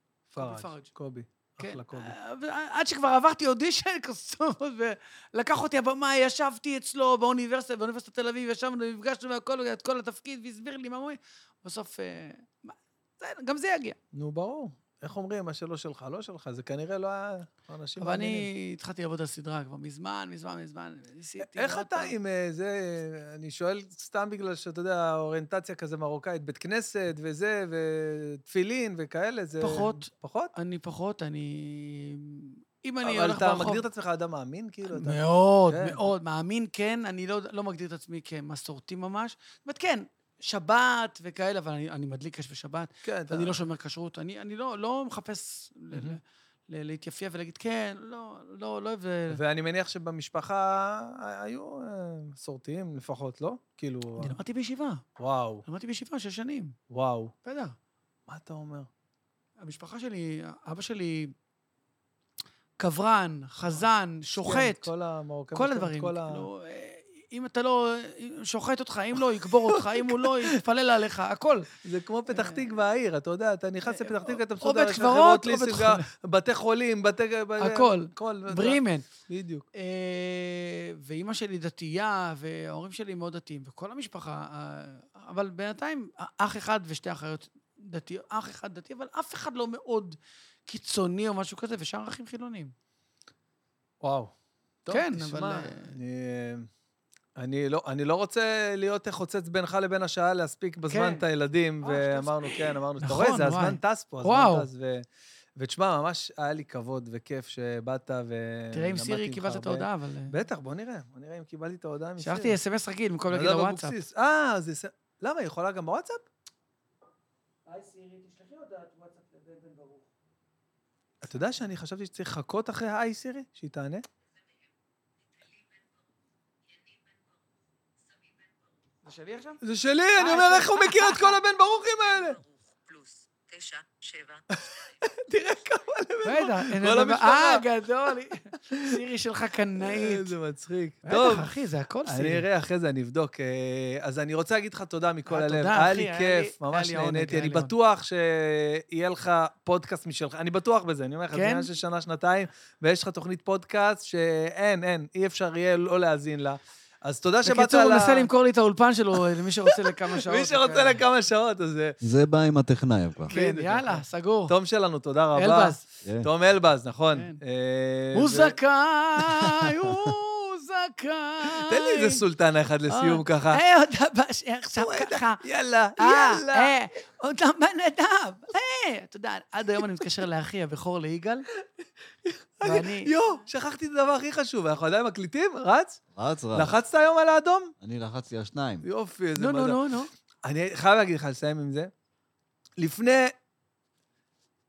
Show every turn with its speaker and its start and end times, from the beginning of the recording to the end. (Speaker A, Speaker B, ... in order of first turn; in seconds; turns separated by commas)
Speaker A: 0.3-2.1, Speaker B: 0.4-0.9, Speaker B: 1.6-14.0, Speaker A: 14.1-18.5, Speaker B: 18.0-22.1, Speaker A: 21.4-30.5, Speaker B: 29.6-33.8, Speaker A: 33.0-36.0, Speaker B: 34.9-49.4, Speaker A: 43.0-43.6, Speaker A: 45.9-46.2, Speaker A: 49.3-54.4, Speaker B: 54.2-55.0, Speaker A: 55.2-55.6, Speaker B: 55.6-56.8, Speaker A: 56.9-57.3, Speaker B: 57.4-57.7, Speaker A: 58.3-58.9, Speaker B: 59.6-61.3, Speaker B: 62.8-64.9, Speaker A: 64.3-66.5, Speaker B: 65.5-71.8, Speaker A: 69.1-70.6, Speaker A: 71.8-79.7, Speaker B: 72.3-72.6, Speaker B: 73.8-76.1, Speaker B: 77.6-79.1, Speaker B: 79.7-92.7, Speaker A: 94.0-96.7, Speaker B: 94.9-95.9, Speaker A: 97.4-105.1, Speaker B: 100.9-101.2, Speaker B: 101.8-104.7, Speaker A: 105.6-112.6, Speaker B: 108.7-110.3, Speaker B: 112.2-114.0, Speaker A: 113.3-116.2, Speaker B: 117.7-120.1, Speaker A: 121.2-124.0, Speaker B: 125.4-125.8, Speaker B: 126.8-127.2, Speaker B: 129.0-129.6, Speaker A: 129.6-132.4, Speaker B: 130.2-131.4, Speaker B: 132.4-134.4, Speaker A: 134.5-138.9, Speaker B: 136.2-140.3, Speaker A: 139.8-141.5, Speaker B: 141.1-142.4, Speaker A: 142.1-158.3, Speaker B: 145.3-147.7, Speaker B: 151.3-151.7, Speaker B: 157.4-161.1, Speaker A: 159.1-162.0, Speaker C: 162.0-163.3, Speaker A: 163.3-168.6, Speaker B: 163.3-164.6, Speaker B: 165.3-165.8, Speaker B: 167.1-167.4, Speaker B: 168.1-172.2, Speaker A: 171.4-173.6, Speaker B: 172.9-175.4, Speaker A: 174.8-176.7, Speaker B: 176.0-181.5, Speaker A: 182.2-186.0, Speaker B: 182.6-183.1, Speaker C: 186.1-186.7, Speaker A: 186.5-187.7, Speaker C: 187.8-188.8, Speaker A: 188.8-189.8, Speaker B: 189.3-190.1, Speaker A: 190.4-191.9, Speaker A: 192.8-193.3